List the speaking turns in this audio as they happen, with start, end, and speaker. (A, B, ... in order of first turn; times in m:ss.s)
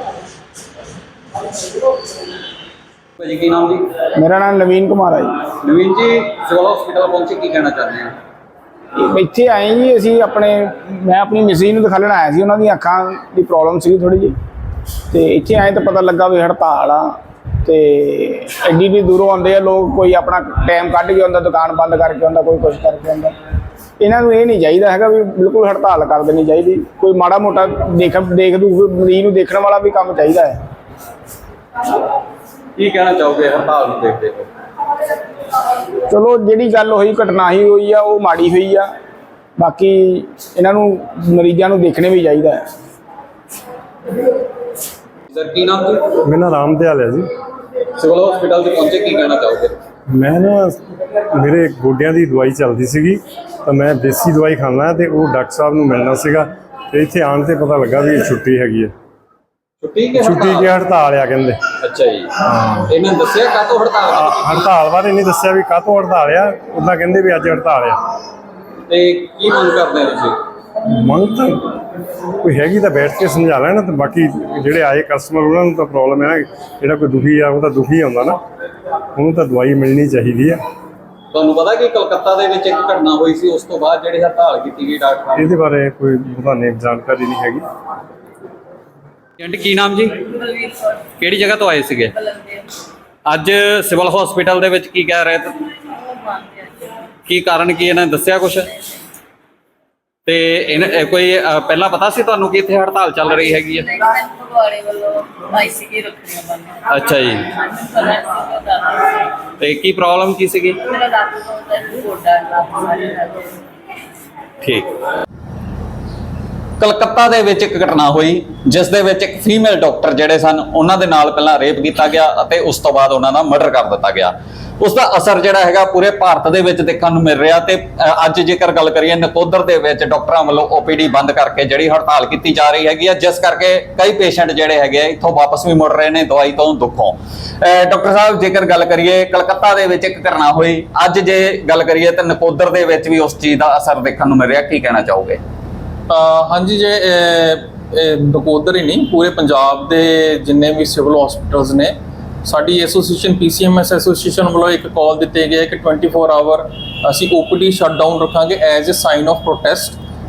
0:03.2-0:03.9 A
0:04.2-0:05.4 B
0:05.5-0:08.1 A
0:09.0-0:14.3 B
0:15.1-0:23.3 B
0:24.0-0:30.6 B
0:32.8-0:34.5 A
0:36.1-0:38.9 B
0:39.6-0:42.6 B
0:45.3-0:46.1 A
0:46.2-0:47.3 C
0:48.0-0:49.8 A
0:50.1-0:58.9 C
0:59.8-1:00.7 A
1:00.2-1:01.6 C
1:01.8-1:02.3 A
1:02.5-1:02.9 C
1:02.9-1:04.7 A
1:04.2-1:08.0 C
1:08.9-1:10.4 A
1:10.9-1:11.6 C
1:12.4-1:18.4 C
1:19.2-1:20.6 C
1:21.3-1:25.5 A
1:25.4-1:27.7 C
1:29.4-1:30.3 A
1:30.6-1:30.9 D
1:31.2-1:32.1 A
1:33.3-1:35.6 A
1:36.0-1:36.9 D
1:37.3-1:38.7 A
1:40.3-1:44.0 A
1:43.9-1:49.0 D
1:46.9-1:47.5 A
1:49.6-1:50.9 A
1:51.0-1:53.5 D
1:54.6-1:54.9 A
1:56.8-2:25.4 A
2:26.1-2:40.0 E